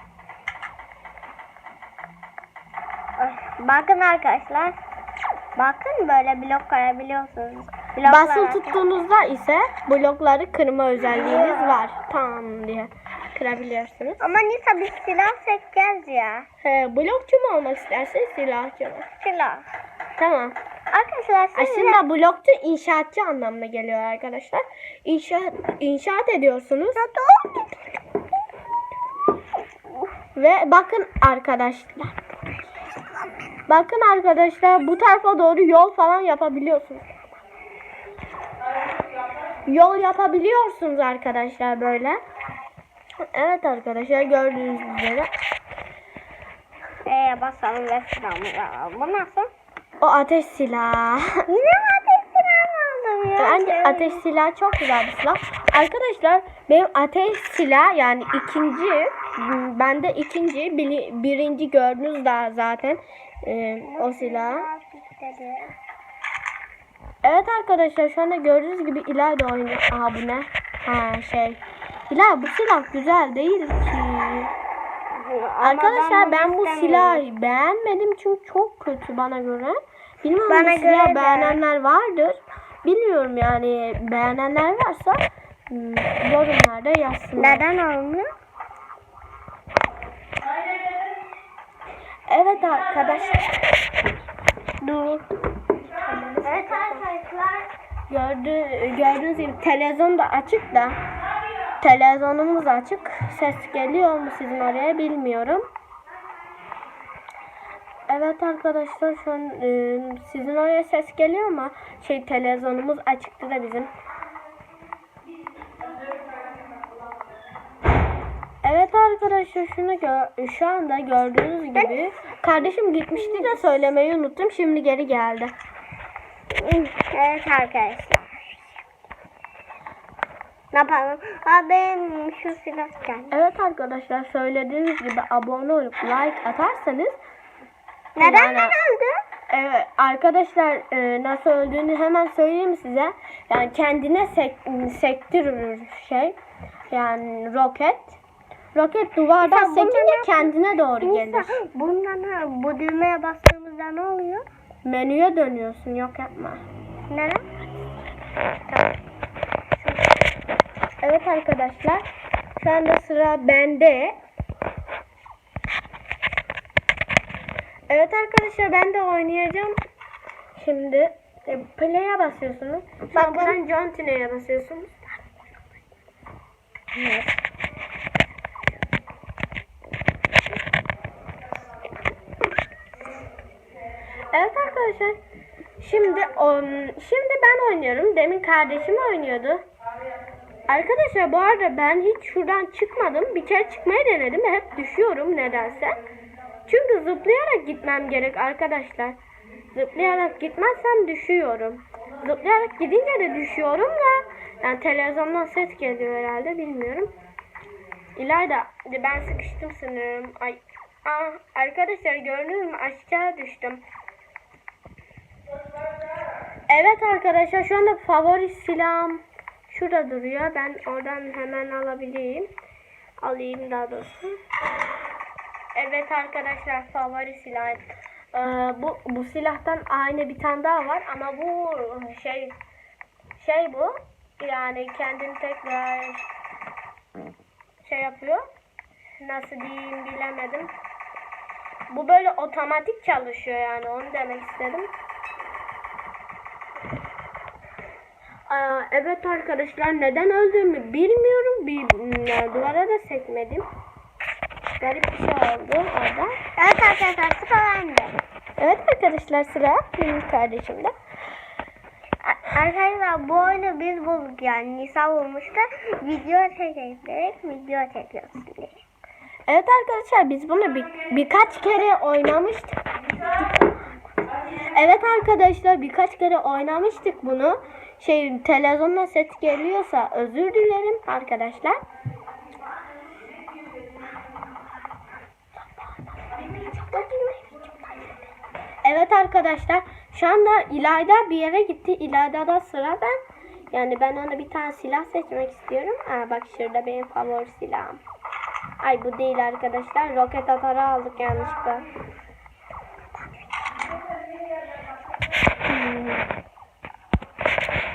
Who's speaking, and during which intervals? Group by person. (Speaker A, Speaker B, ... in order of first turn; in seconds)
Speaker A: 3.2-4.8, 5.5-8.8, 11.0-11.8, 14.2-16.4, 19.2-19.6, 20.9-22.0, 26.9-27.7, 47.0-49.5, 51.5-54.2, 63.8-65.7, 75.1-77.2, 80.5-81.6, 87.4-88.3, 94.8-95.2, 96.4-97.7, 121.7-122.0, 123.2-123.7, 126.5-128.8, 130.7-133.3, 138.2-139.2, 149.4-154.4, 157.1-157.4, 173.1-173.6, 176.9-177.4, 256.6-258.2, 262.2-268.8, 286.6-288.1
Speaker B: 8.0-14.2, 16.6-19.1, 20.2-20.5, 21.6-27.0, 30.3-32.3, 33.7-37.1, 39.7-42.2, 43.3-45.3, 50.0-51.4, 53.4-64.7, 67.2-74.5, 75.6-87.6, 92.3-93.5, 96.0-97.0, 98.1-101.0, 101.8-105.6, 108.1-113.9, 118.6-125.5, 133.3-137.2, 138.2-138.8, 139.5-146.4, 146.9-148.2, 148.7-151.5, 154.8-156.6, 161.0-162.0, 162.6-164.2, 167.9-169.8, 170.6-175.2, 184.3-185.2, 185.8-189.6, 190.7-196.0, 196.7-199.2, 199.7-207.1, 208.2-213.8, 216.7-222.5, 223.2-224.4, 225.7-232.6, 233.4-236.2, 237.8-238.4, 239.2-240.7, 241.9-244.9, 248.5-253.7, 254.8-256.4, 258.6-260.9, 269.5-272.8, 274.7-281.8, 286.1-287.1, 288.8-293.2, 293.7-298.0, 298.8-301.9, 305.6-306.3